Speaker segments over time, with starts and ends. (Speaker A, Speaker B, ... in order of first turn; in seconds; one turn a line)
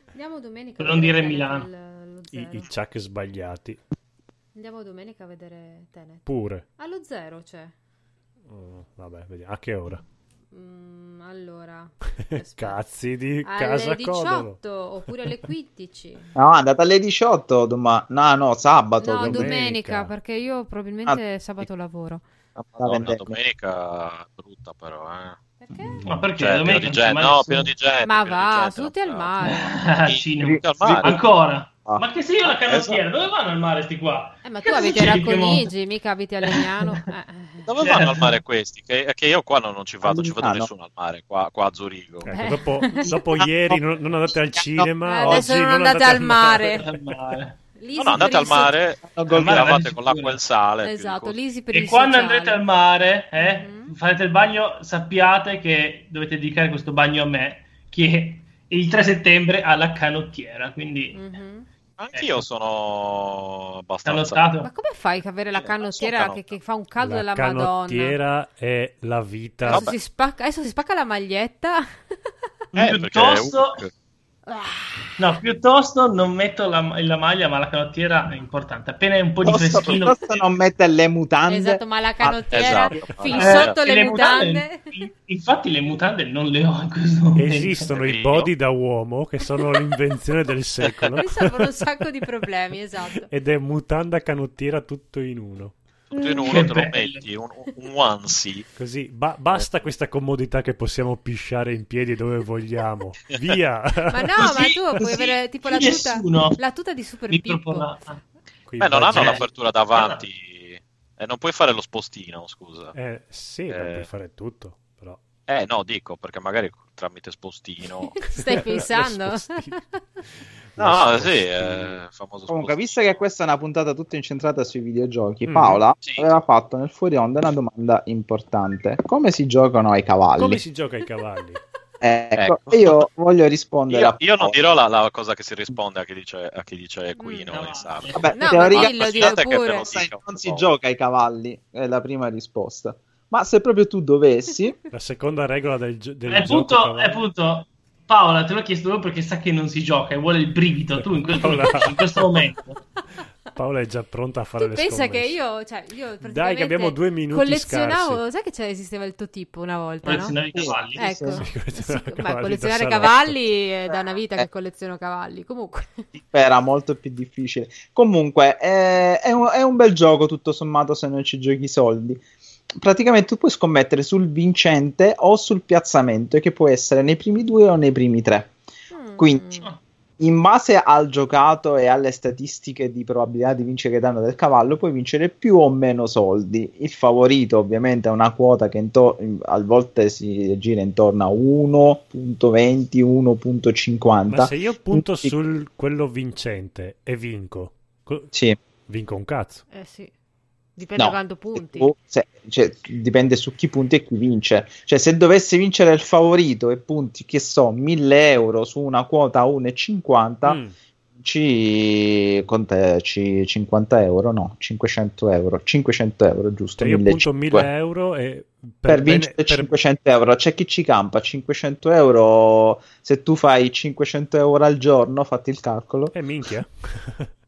Speaker A: 0.1-2.7
Speaker B: 0.8-1.7
Speaker C: 2.3-3.8
Speaker A: 4.5-7.7
Speaker C: 6.3-6.7
Speaker C: 8.5-10.0
Speaker A: 10.5-16.3
Speaker C: 12.4-14.6
Speaker D: 16.4-19.5
Speaker A: 19.0-22.2
Speaker C: 19.2-20.1
Speaker D: 21.1-21.7
Speaker E: 22.6-25.4
Speaker D: 22.8-23.4
Speaker A: 25.6-26.1
Speaker C: 25.9-26.3
Speaker B: 26.1-27.7
Speaker E: 26.4-29.4
Speaker A: 28.0-29.9
Speaker B: 29.4-35.7
Speaker E: 30.1-31.1
Speaker D: 30.4-31.2
Speaker E: 32.6-33.0
Speaker A: 34.4-37.8
Speaker B: 36.4-37.1
Speaker E: 37.6-42.3
Speaker B: 37.8-38.4
Speaker D: 40.0-40.7
Speaker C: 42.2-46.9
Speaker A: 42.3-43.2
Speaker D: 43.0-45.5
Speaker A: 45.0-46.9
Speaker B: 46.8-47.6
Speaker A: 47.8-48.9
Speaker E: 48.0-51.5
Speaker D: 49.0-49.8
Speaker B: 49.3-50.4
Speaker A: 50.8-52.6
Speaker B: 51.7-61.2
Speaker A: 53.4-53.9
Speaker A: 61.1-61.7
Speaker E: 62.0-64.5
Speaker B: 62.1-62.5
Speaker B: 64.0-64.7
Speaker A: 64.6-68.2
Speaker E: 65.5-66.6
Speaker C: 67.0-69.9
Speaker A: 69.6-71.8
Speaker E: 69.7-70.0
Speaker D: 72.7-73.0
Speaker E: 72.8-73.9
Speaker B: 72.8-73.8
Speaker A: 74.5-75.3
Speaker B: 75.2-80.3
Speaker D: 79.4-83.4
Speaker A: 81.5-85.0
Speaker E: 82.5-83.8
Speaker B: 83.4-87.9
Speaker C: 87.3-91.9
Speaker E: 88.0-88.5
Speaker A: 91.2-93.3
Speaker C: 93.3-95.8
Speaker E: 96.1-98.7
Speaker A: 96.1-96.6
Speaker B: 96.5-97.3
Speaker C: 98.8-104.5
Speaker A: 104.1-108.0
Speaker B: 104.4-106.6
Speaker B: 107.3-108.2
Speaker C: 108.7-109.5
Speaker E: 108.8-112.9
Speaker B: 109.1-110.2
Speaker C: 112.9-115.2
Speaker E: 113.7-114.1
Speaker E: 115.5-118.2
Speaker A: 118.0-119.8
Speaker C: 118.3-119.8
Speaker C: 120.7-122.0
Speaker E: 120.8-123.2
Speaker D: 122.5-130.6
Speaker C: 125.5-125.8
Speaker E: 126.0-126.3
Speaker C: 130.4-131.6
Speaker D: 132.0-134.6
Speaker E: 132.4-133.1
Speaker E: 133.9-140.7
Speaker A: 137.2-137.5
Speaker B: 137.5-138.2
Speaker D: 138.2-144.8
Speaker A: 138.3-139.9
Speaker C: 144.9-147.2
Speaker B: 146.3-152.8
Speaker C: 151.0-152.3
Speaker C: 153.5-155.4
Speaker A: 154.6-160.4
Speaker C: 156.2-158.2
Speaker B: 160.1-161.0
Speaker D: 160.5-161.5
Speaker A: 160.9-166.0
Speaker C: 161.4-163.4
Speaker D: 163.9-164.5
Speaker D: 166.2-172.2
Speaker D: 172.8-178.5
Speaker A: 178.9-179.7
Speaker D: 179.2-179.6
Speaker D: 180.2-195.3
Speaker C: 194.3-198.3
Speaker C: 198.9-199.7
Speaker A: 199.7-200.1
Speaker A: 200.8-201.9
Speaker D: 201.0-210.6
Speaker C: 210.4-210.7
Speaker D: 211.2-217.7
Speaker C: 216.8-219.7
Speaker D: 218.9-226.2
Speaker C: 226.1-227.3